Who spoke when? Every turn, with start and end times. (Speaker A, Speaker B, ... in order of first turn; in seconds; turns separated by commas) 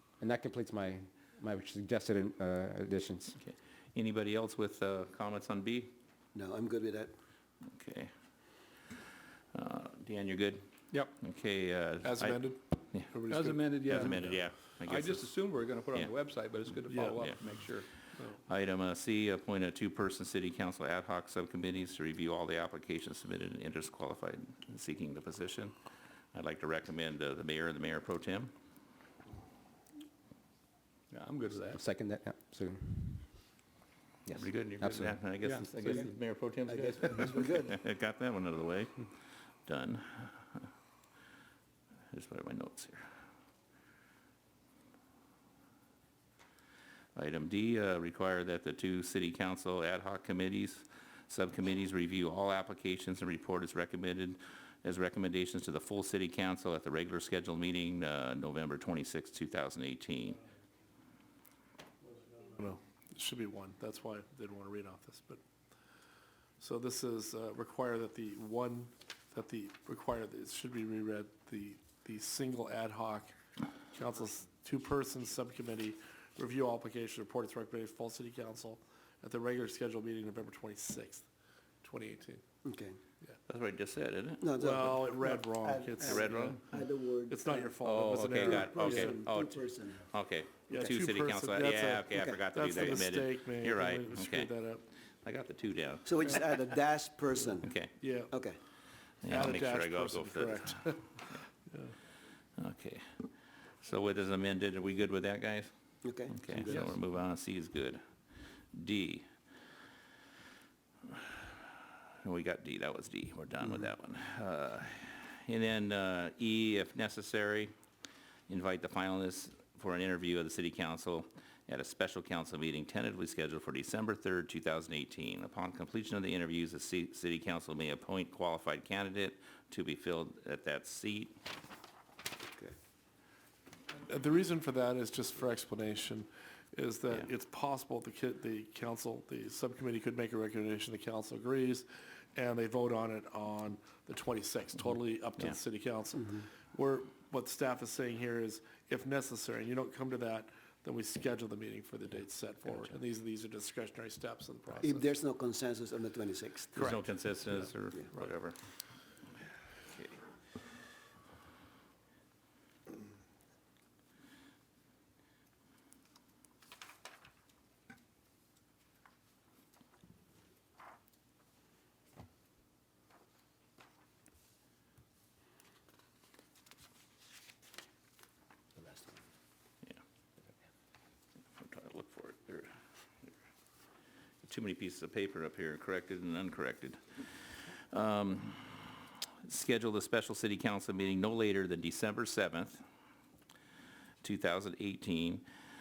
Speaker A: 0.2-3.4, Speaker B: 3.4-5.9, Speaker C: 6.3-7.1, Speaker B: 7.7-8.1, Speaker B: 9.5-13.1, Speaker D: 12.0-14.3, Speaker E: 13.3-17.9, Speaker B: 13.7-16.1, Speaker D: 16.8-17.3, Speaker B: 18.5-25.7, Speaker B: 26.3-28.5, Speaker E: 31.1-31.8, Speaker A: 31.7-33.3, Speaker A: 34.3-35.2, Speaker B: 34.3-38.9, Speaker C: 36.6-37.8, Speaker B: 39.7-40.7, Speaker B: 42.1-43.1, Speaker B: 47.1-60.4, Speaker D: 62.2-65.4, Speaker D: 66.6-73.3, Speaker D: 73.9-81.3, Speaker D: 81.8-82.4, Speaker C: 82.6-83.0, Speaker B: 83.5-84.5, Speaker C: 84.4-90.1, Speaker D: 84.6-89.2, Speaker B: 86.0-86.6, Speaker B: 87.8-94.5, Speaker D: 90.7-94.8, Speaker C: 92.1-92.4, Speaker B: 95.2-96.4, Speaker C: 96.0-97.7, Speaker B: 97.6-97.9, Speaker D: 97.8-98.3, Speaker C: 98.3-98.6, Speaker B: 99.2-101.3, Speaker D: 99.2-101.9, Speaker B: 102.6-103.0, Speaker B: 103.8-105.7, Speaker C: 106.0-106.9, Speaker B: 106.3-108.0, Speaker B: 108.7-109.2, Speaker B: 111.1-111.5, Speaker B: 112.2-117.7, Speaker B: 118.5-131.3, Speaker C: 132.4-132.7, Speaker D: 133.9-155.1, Speaker C: 154.8-156.9, Speaker D: 156.7-158.3, Speaker B: 156.8-158.6, Speaker B: 159.9-160.2, Speaker C: 178.8-179.2, Speaker B: 181.6-182.7, Speaker B: 184.4-188.9, Speaker B: 189.4-192.8, Speaker B: 194.2-195.4